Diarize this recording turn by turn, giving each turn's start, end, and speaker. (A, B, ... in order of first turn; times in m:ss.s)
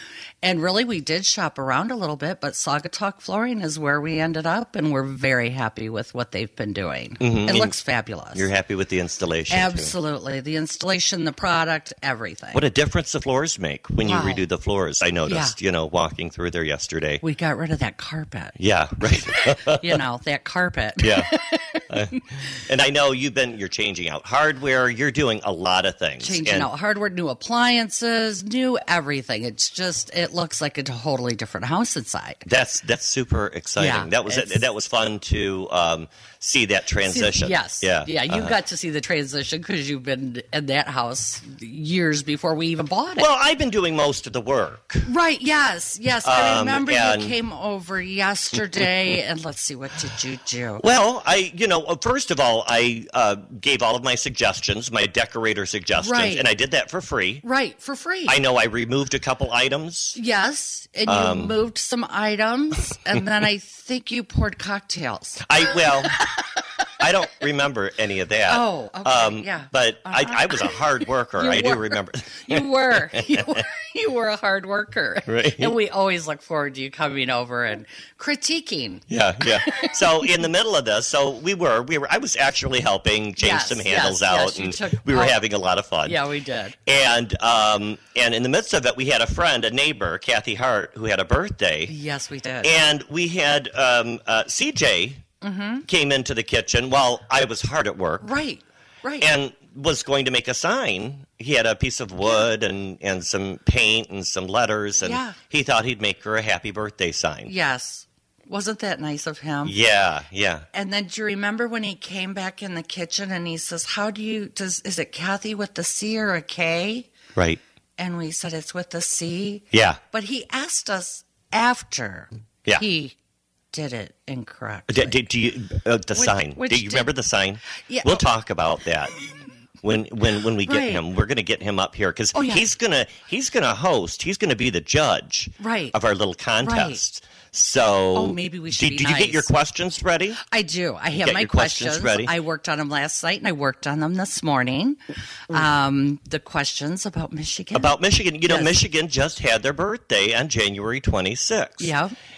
0:00.4-0:08.5 A
0:07.2-0:07.8 B
0:08.4-0:09.9 B
0:09.5-0:12.6 A
0:12.5-0:17.2 B
0:14.1-0:14.4 A
0:15.3-0:15.6 A
0:17.2-0:18.6 A
0:18.6-0:20.0 B
0:19.1-0:22.2 A
0:21.0-0:21.3 B
0:21.9-0:26.7 B
0:26.2-0:32.4 A
0:32.5-0:38.5 B
0:33.8-0:34.6 A
0:37.1-0:43.2 A
0:43.2-0:45.1 B
0:45.1-0:50.8 A
0:46.2-0:47.4 B
0:50.8-0:57.4 B
0:56.0-0:56.4 A
0:57.4-0:58.4 A
0:58.3-1:00.2 B
1:00.2-1:06.5 A
1:01.1-1:01.6 B
1:05.4-1:06.2 B
1:07.0-1:13.6 B
1:08.5-1:10.8 A
1:11.4-1:20.3 A
1:15.3-1:15.7 B
1:19.1-1:26.2 B
1:23.4-1:25.4 A
1:26.1-1:26.8 A
1:26.9-1:31.9 B
1:31.9-1:32.8 A
1:32.6-1:35.2 B
1:35.4-1:35.8 A
1:35.9-1:38.3 B
1:38.2-1:39.3 A
1:39.2-1:47.5 B
1:45.0-1:45.4 A
1:47.5-1:49.7 A
1:49.6-1:50.7 B
1:50.7-1:57.1 A
1:58.0-2:03.2 A
1:59.7-2:00.0 B
2:03.7-2:05.2 A
2:04.9-2:09.2 B
2:06.1-2:07.1 A
2:07.8-2:08.2 A
2:09.8-2:20.4 B
2:10.6-2:11.0 A
2:12.4-2:12.6 A
2:15.6-2:16.0 A
2:16.6-2:17.0 A
2:18.1-2:19.5 A
2:20.5-2:27.9 A
2:21.2-2:22.3 B
2:27.7-2:31.9 B
2:28.5-2:28.8 A
2:31.8-2:32.1 A